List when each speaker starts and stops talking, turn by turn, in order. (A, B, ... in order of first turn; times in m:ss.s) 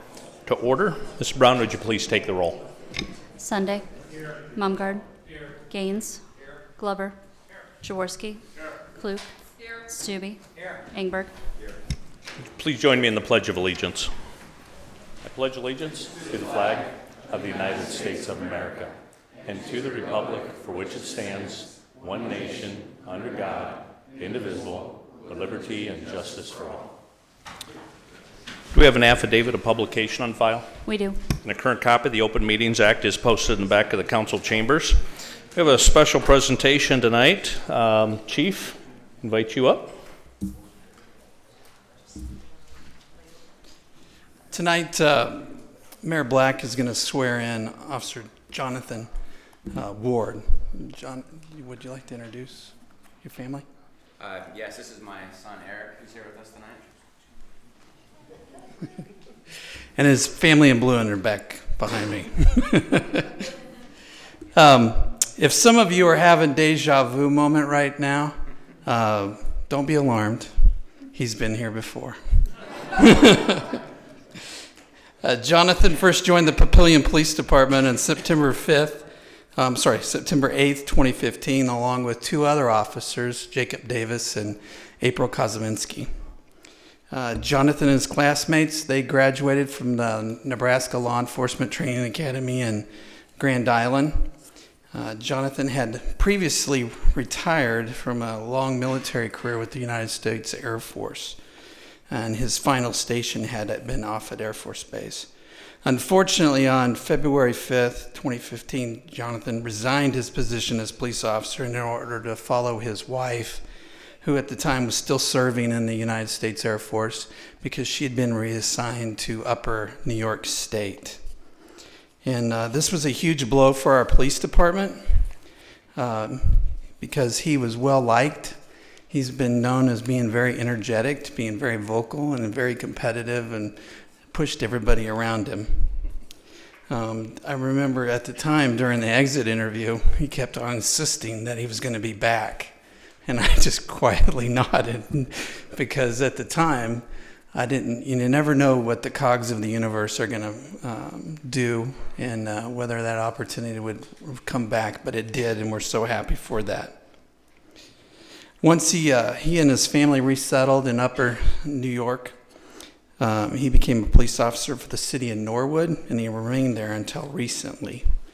0:00.5-0:02.6 A
0:03.4-0:03.9 B
0:04.5-0:05.0 B
0:05.6-0:06.2 B
0:06.8-0:07.2 B
0:07.8-0:11.3 B
0:12.5-0:14.1 A
0:15.2-0:18.9 A
0:19.4-0:26.9 A
0:28.7-0:30.7 A
0:30.8-0:31.2 B
0:31.4-0:35.0 A
0:35.5-0:40.0 A
0:44.5-0:49.1 C
0:49.7-0:53.6 C
0:54.2-0:56.9 D
1:00.0-1:03.5 C
1:04.5-1:10.5 C
1:11.1-1:12.2 C
1:12.9-1:13.8 C
1:15.2-1:26.1 C
1:27.1-1:34.3 C
1:34.9-1:41.4 C
1:42.1-1:45.3 C
1:45.8-1:53.6 C
1:54.2-2:01.2 C
2:02.2-2:05.0 C
2:06.0-2:08.6 C
2:09.1-2:13.8 C
2:14.3-2:15.9 C
2:16.9-2:22.8 C
2:23.2-2:37.0 C
2:38.6-2:42.3 C
2:43.2-2:48.1 C